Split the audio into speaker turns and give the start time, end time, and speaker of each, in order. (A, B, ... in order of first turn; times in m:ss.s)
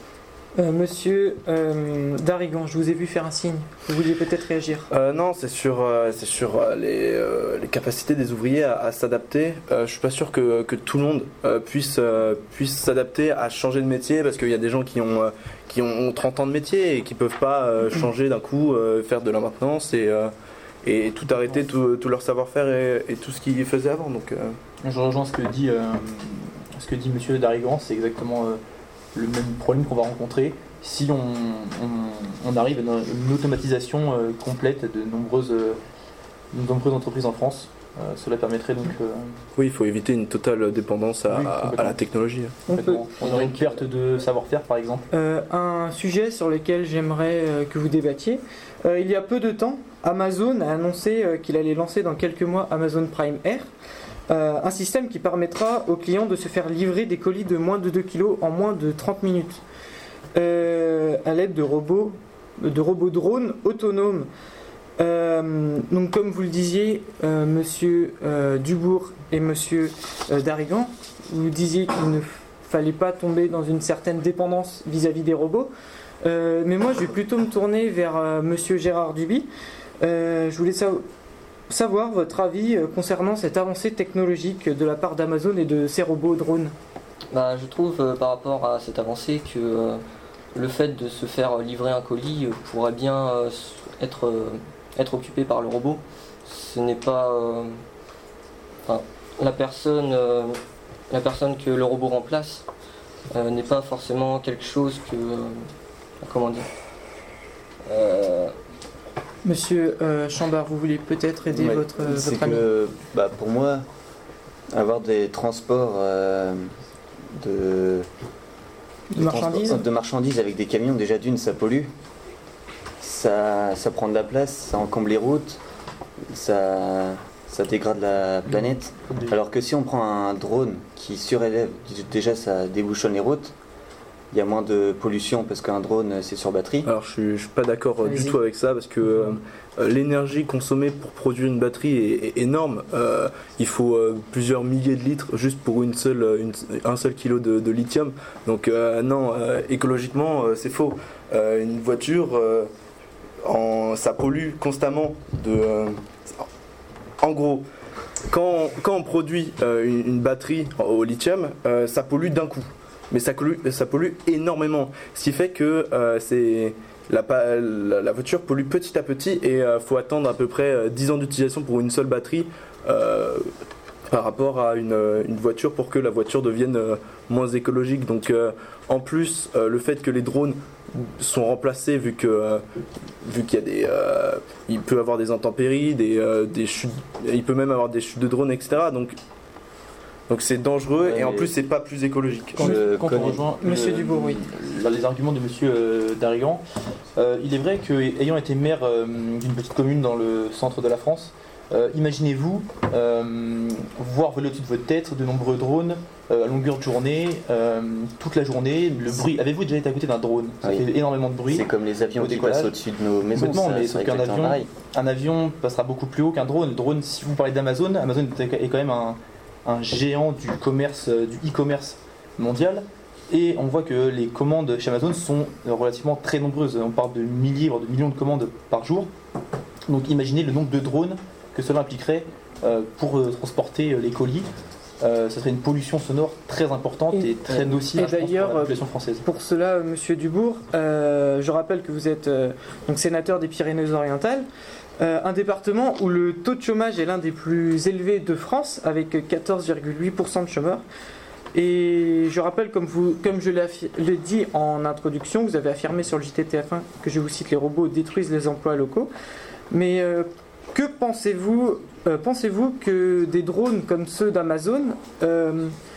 0:00.6-0:04.9 A
0:04.9-0:20.3 B
0:20.8-0:24.6 B
0:24.8-0:28.6 C
0:29.1-0:35.8 C
0:36.5-0:39.4 C
0:39.6-0:42.6 B
0:41.3-0:42.0 C
0:42.7-0:43.0 A
0:42.7-0:45.1 C
0:43.2-0:43.8 D
0:45.1-0:53.7 A
0:54.3-0:59.6 A
1:00.3-1:04.3 A
1:05.0-1:15.7 A
1:16.2-1:19.5 A
1:20.0-1:21.0 A
1:21.7-1:26.7 A
1:27.3-1:30.0 D
1:30.5-1:37.8 D
1:38.8-1:40.6 D
1:41.1-1:42.6 D
1:43.3-1:45.7 D
1:46.2-1:46.7 D
1:47.9-1:48.5 D
1:49.4-1:52.6 A
1:51.5-1:53.8 E
1:54.7-1:56.7 E
1:57.3-1:58.1 E
1:59.1-1:59.8 A
1:59.1-2:01.9 E
2:03.0-2:05.6 E
2:06.3-2:13.5 E
2:14.3-2:16.9 E
2:16.8-2:32.7 B
2:18.0-2:18.4 A
2:33.4-2:36.5 B
2:37.2-2:37.6 B
2:38.3-2:53.5 B
2:54.1-3:02.6 B
3:03.2-3:09.2 B
3:10.3-3:12.8 B
3:11.0-3:11.5 E
3:12.6-3:13.4 E
3:12.6-3:16.6 C
3:13.6-3:14.4 A
3:17.2-3:32.7 C
3:30.6-3:30.9 E
3:31.5-3:34.7 E
3:33.3-3:49.1 C
3:49.9-3:54.5 C
3:55.0-3:59.2 C
3:57.1-4:04.5 A
4:05.0-4:10.8 A
4:11.5-4:19.1 A
4:19.7-4:25.7 A